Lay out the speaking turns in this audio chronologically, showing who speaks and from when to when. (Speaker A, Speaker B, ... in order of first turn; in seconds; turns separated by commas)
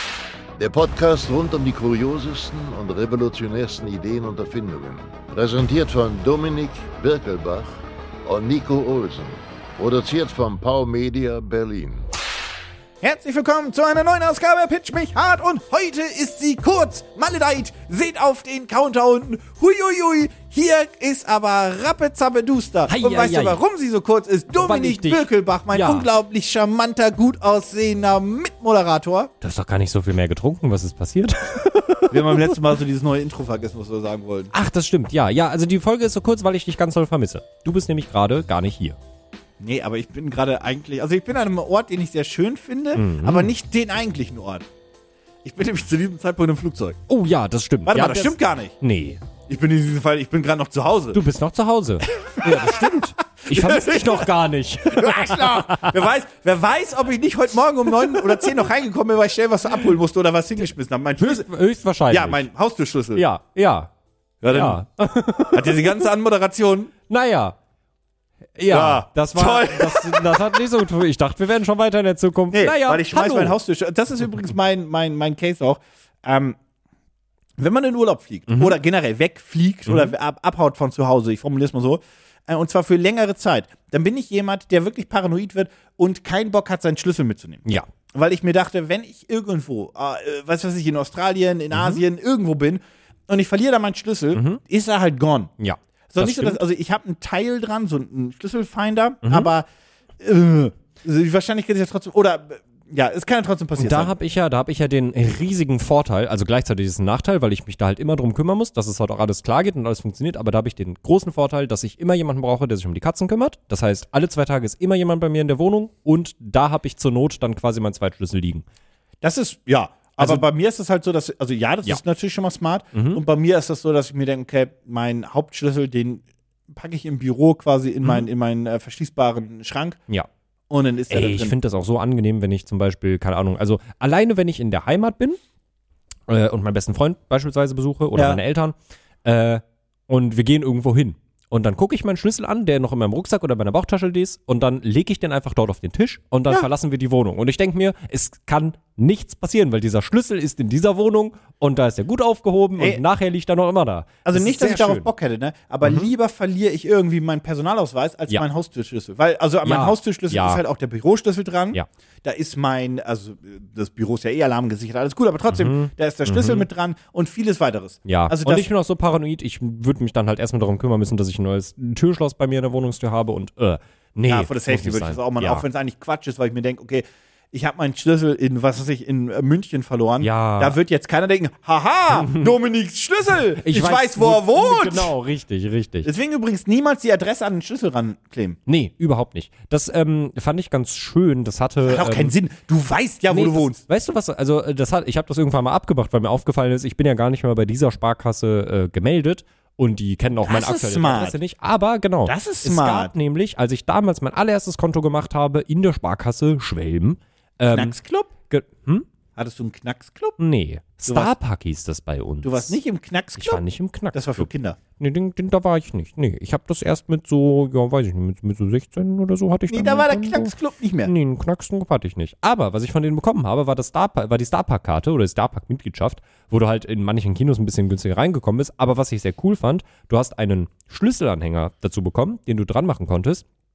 Speaker A: 0.6-12.1, Speaker B: 13.0-29.3, Speaker C: 22.9-23.6, Speaker C: 24.6-26.1, Speaker C: 29.4-32.6, Speaker B: 32.1-34.5, Speaker C: 34.5-39.0, Speaker B: 39.6-44.6, Speaker C: 42.9-43.5, Speaker B: 45.4-47.0, Speaker C: 47.1-49.2, Speaker B: 47.8-48.8, Speaker B: 49.5-51.2, Speaker C: 51.1-56.0, Speaker B: 52.1-61.5, Speaker C: 58.0-58.5, Speaker C: 61.2-62.5, Speaker B: 62.1-63.2, Speaker C: 63.1-63.9, Speaker B: 64.4-64.8, Speaker C: 64.5-66.1, Speaker B: 65.5-66.9, Speaker C: 67.1-67.6, Speaker C: 68.5-73.6, Speaker B: 68.7-70.7, Speaker B: 72.5-76.6, Speaker B: 77.6-95.5, Speaker C: 78.5-78.8, Speaker C: 79.9-80.1, Speaker C: 91.7-92.0, Speaker C: 94.3-94.6, Speaker C: 95.6-96.6, Speaker B: 96.1-99.7, Speaker C: 99.2-99.5, Speaker B: 100.2-104.1, Speaker C: 103.8-118.6, Speaker B: 119.2-130.0, Speaker C: 120.2-120.4, Speaker C: 122.9-123.2, Speaker B: 130.7-131.5, Speaker C: 131.1-135.4, Speaker C: 136.3-155.1, Speaker B: 138.1-138.4, Speaker B: 152.8-153.0, Speaker B: 154.2-168.7, Speaker C: 155.8-156.1, Speaker C: 159.6-160.6, Speaker C: 165.5-166.7, Speaker C: 168.1-175.6, Speaker B: 174.3-185.1, Speaker C: 180.2-180.8, Speaker C: 182.1-182.6, Speaker C: 183.6-186.1, Speaker B: 186.0-188.6, Speaker C: 188.7-192.3, Speaker B: 191.8-193.8, Speaker C: 193.3-207.9, Speaker B: 200.4-201.3, Speaker B: 202.2-203.1, Speaker B: 207.7-208.3, Speaker C: 208.5-209.1, Speaker B: 209.3-210.4, Speaker C: 210.4-212.8, Speaker B: 211.1-211.3, Speaker B: 212.4-214.8, Speaker C: 213.4-220.5, Speaker B: 219.7-221.1, Speaker C: 221.0-233.4